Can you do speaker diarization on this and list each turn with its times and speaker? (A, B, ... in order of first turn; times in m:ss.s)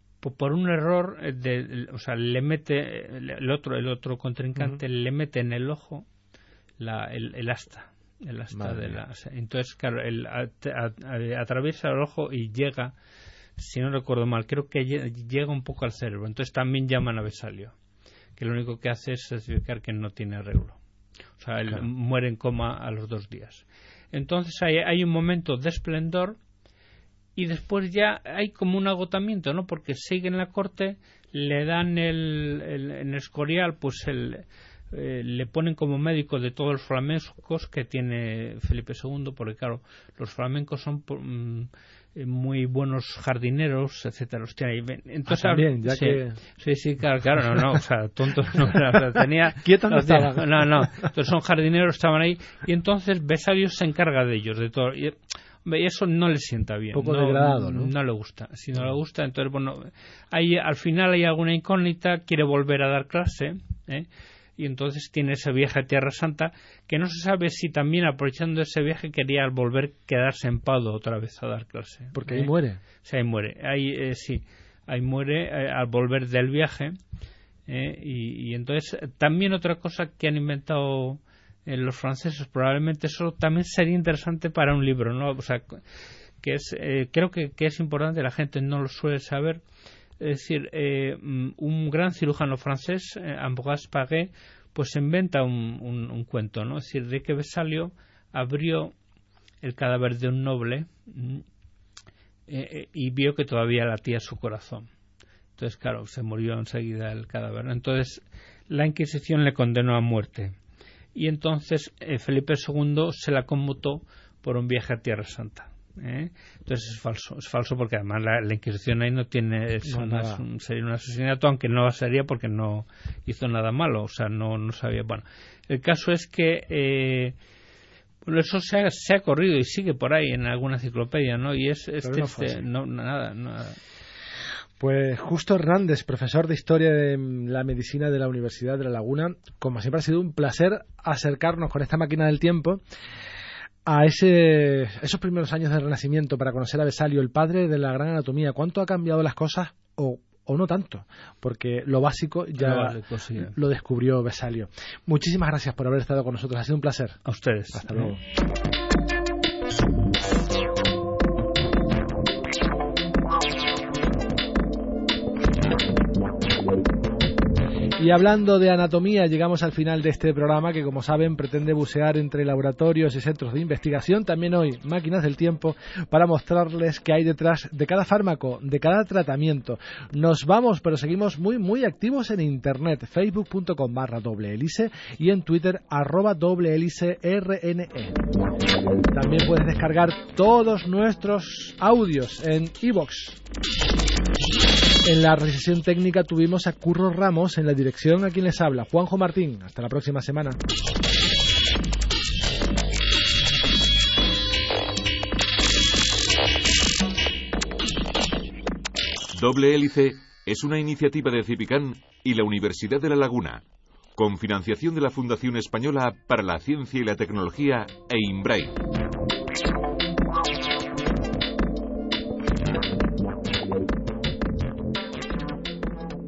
0:00.2-0:06.1 A
0:06.8-0:12.9 A
0:08.5-0:09.0 B
0:13.6-0:17.7 A
0:18.4-0:20.8 A
0:21.4-0:26.4 A
0:27.4-1:17.0 A
0:45.3-0:46.4 B
0:49.2-0:51.1 B
0:56.9-0:57.9 B
1:12.1-1:12.8 B
1:17.7-1:25.8 A
1:26.4-1:29.6 A
1:30.2-1:38.9 A
1:39.6-1:41.4 A
1:42.5-1:44.9 A
1:45.6-1:50.6 A
1:51.1-2:07.3 A
1:59.8-2:00.4 B
2:08.2-2:13.8 A
2:12.0-2:12.6 B
2:14.8-2:22.8 B
2:23.8-2:37.2 B
2:32.6-2:33.5 A
2:37.2-2:38.1 A
2:37.7-2:38.2 B
2:48.0-3:08.2 B
3:09.1-3:13.4 B
3:15.0-3:20.6 B
3:29.3-3:33.6 C
3:34.2-3:38.8 C